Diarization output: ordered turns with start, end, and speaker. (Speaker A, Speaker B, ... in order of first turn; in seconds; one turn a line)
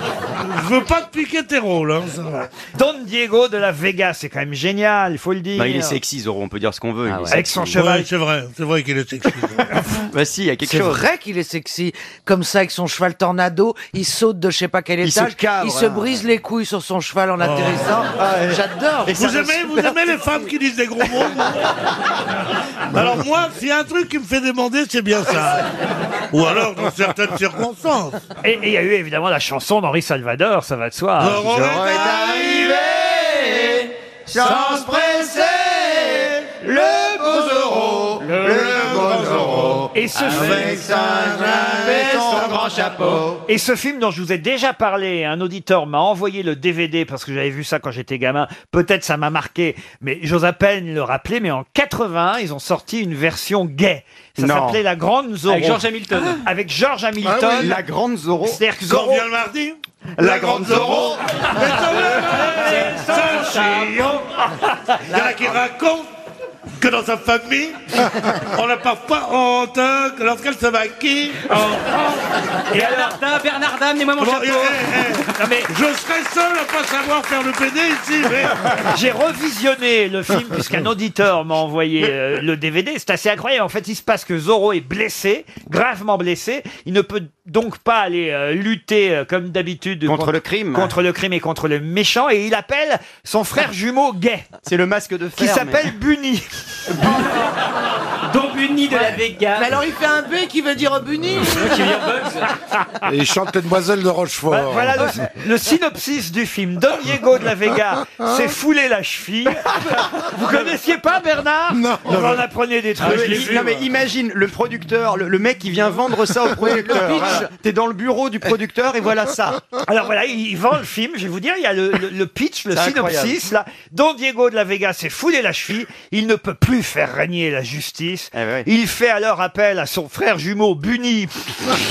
Speaker A: 0.5-2.5
Speaker B: 2.8-6.0
Speaker C: 5.6-7.8
Speaker B: 7.3-8.1
Speaker A: 7.7-9.8
Speaker C: 10.1-11.1
Speaker D: 10.6-20.1
Speaker C: 15.0-16.2
Speaker A: 17.4-17.9
Speaker C: 18.2-19.4
Speaker A: 19.1-21.5
Speaker A: 22.9-25.6
Speaker A: 26.3-28.2
Speaker B: 28.4-31.8
Speaker A: 31.2-32.6
Speaker C: 31.9-33.8
Speaker C: 34.3-39.9
Speaker A: 38.7-39.6
Speaker B: 39.9-41.0
Speaker E: 40.3-43.2
Speaker C: 40.6-43.4
Speaker B: 43.5-55.8
Speaker C: 54.4-54.8
Speaker E: 55.5-56.4
Speaker B: 56.4-57.8
Speaker F: 57.2-57.8
Speaker C: 57.6-58.6
Speaker B: 58.5-59.3
Speaker A: 58.8-64.2
Speaker C: 60.2-62.1
Speaker E: 62.6-64.1
Speaker B: 62.6-63.0
Speaker A: 65.1-66.1
Speaker A: 66.8-67.8
Speaker A: 68.5-72.2
Speaker E: 72.7-74.8
Speaker B: 72.7-73.2
Speaker A: 74.2-78.8
Speaker B: 75.3-75.7
Speaker B: 78.9-94.5
Speaker C: 90.1-90.9
Speaker C: 94.6-95.9
Speaker B: 95.4-96.5
Speaker E: 98.3-99.8
Speaker E: 101.4-102.5
Speaker F: 103.1-105.1
Speaker B: 104.5-113.6
Speaker F: 108.2-108.4
Speaker F: 111.7-112.4
Speaker F: 113.0-113.4
Speaker E: 113.0-113.7
Speaker C: 113.1-119.6
Speaker B: 119.9-131.4
Speaker C: 122.7-123.4
Speaker C: 128.3-128.7